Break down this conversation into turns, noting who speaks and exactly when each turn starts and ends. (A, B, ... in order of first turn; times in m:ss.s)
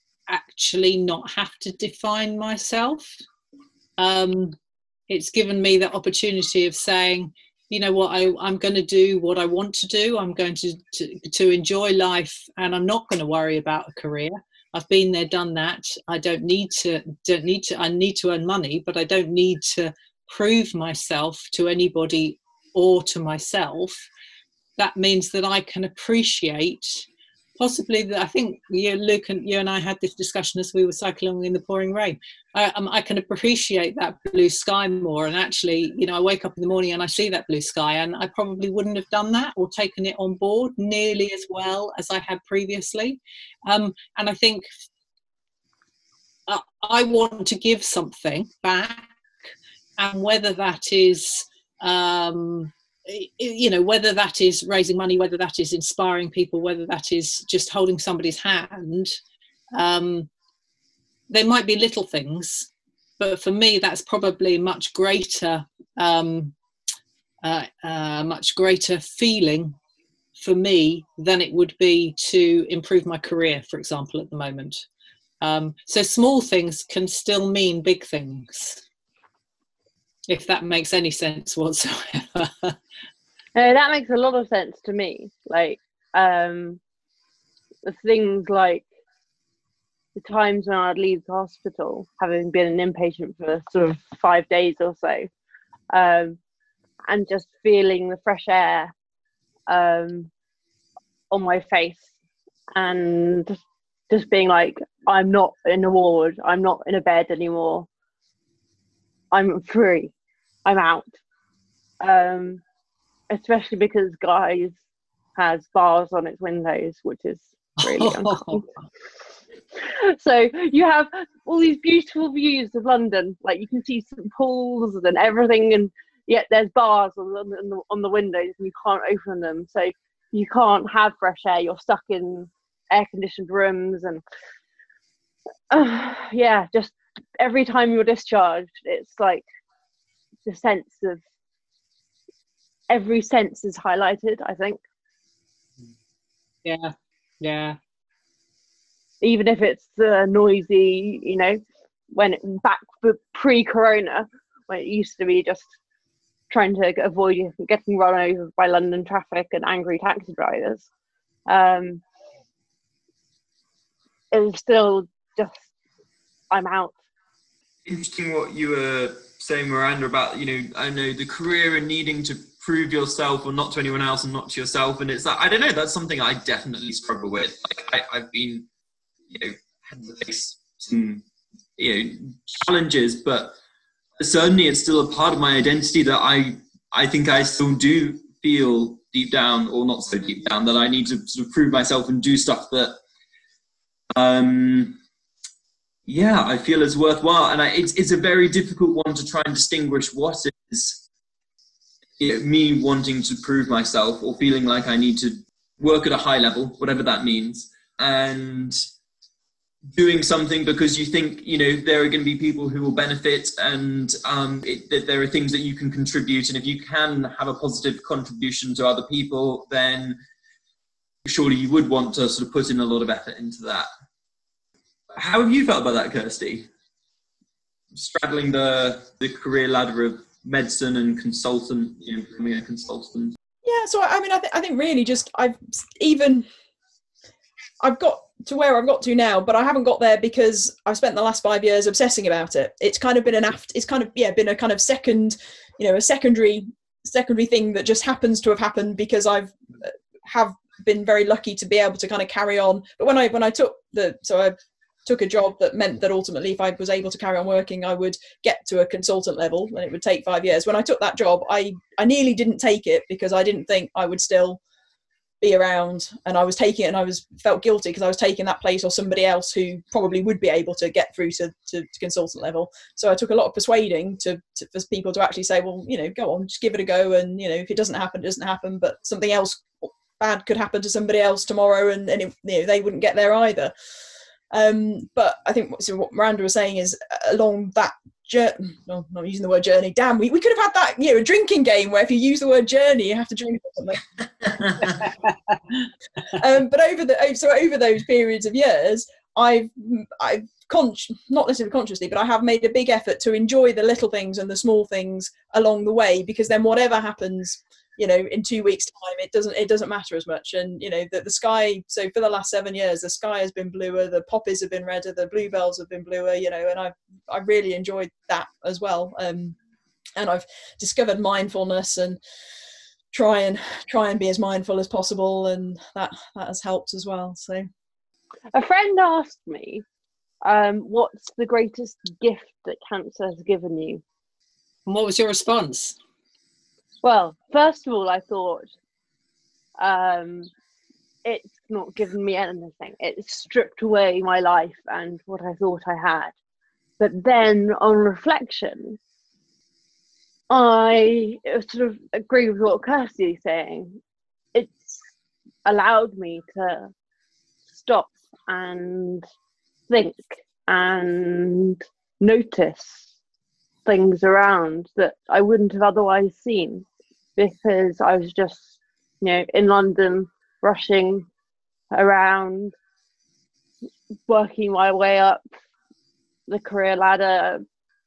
0:00.3-0:03.2 A
0:04.0-0:04.6 A
0:05.1-0:24.1 A
0:24.8-0:27.0 A
0:27.6-0:44.7 A
0:46.5-0:49.1 A
0:50.0-0:59.2 A
0:59.8-1:00.3 A
1:01.3-1:02.7 A
1:03.2-1:06.6 A
1:07.4-1:09.8 A
1:10.4-1:14.8 A
1:15.4-1:18.8 A
1:20.3-1:22.8 A
1:23.6-1:26.8 B
1:27.8-1:28.9 B
1:30.2-1:35.3 B
1:35.9-1:36.4 B
1:37.1-1:38.9 B
1:39.7-1:40.3 B
1:41.3-1:42.1 B
1:42.7-1:43.6 B
1:44.1-1:47.9 B
1:49.3-1:50.1 B
1:50.6-1:51.2 B
1:52.0-1:52.6 B
1:53.3-1:54.8 B
1:55.4-1:58.6 B
1:57.8-1:58.7 A
1:59.8-2:14.2 B
2:15.7-2:19.5 B
2:20.5-2:21.2 B
2:22.9-2:24.8 B
2:26.6-2:27.8 A
2:29.2-2:35.7 B
2:36.5-2:40.9 B
2:41.5-2:42.0 B
2:44.3-2:45.6 B
2:46.5-2:47.0 B
2:47.8-2:58.7 C
2:59.3-3:01.2 C
3:01.8-3:03.6 C
3:04.2-3:13.0 C
3:14.2-3:15.0 C
3:16.1-3:21.0 C
3:22.2-3:28.8 C
3:29.9-3:40.2 C
3:41.2-3:43.9 C
3:45.1-3:46.7 C
3:47.9-3:53.4 C
3:53.6-3:56.5 D
3:57.8-4:24.6 D
4:25.4-4:43.7 D
4:44.5-4:54.0 D
4:54.4-4:54.8 C
4:54.8-4:55.9 A
4:56.3-5:19.6 D
5:20.2-5:22.2 D
5:23.1-5:27.7 D
5:28.5-5:29.8 B
5:30.4-5:34.0 B
5:34.9-5:36.0 A
5:37.0-5:38.7 B
5:39.8-5:40.5 B
5:41.2-5:46.3 B
5:47.0-5:49.0 B
5:50.5-5:54.0 B
5:54.5-5:55.0 B
5:55.7-5:56.9 B
5:57.7-5:59.2 B
5:59.9-6:03.0 B
6:03.9-6:06.9 B
6:07.4-6:08.7 B
6:09.2-6:11.3 B
6:11.9-6:12.8 B
6:14.3-6:15.4 B
6:16.5-6:17.6 B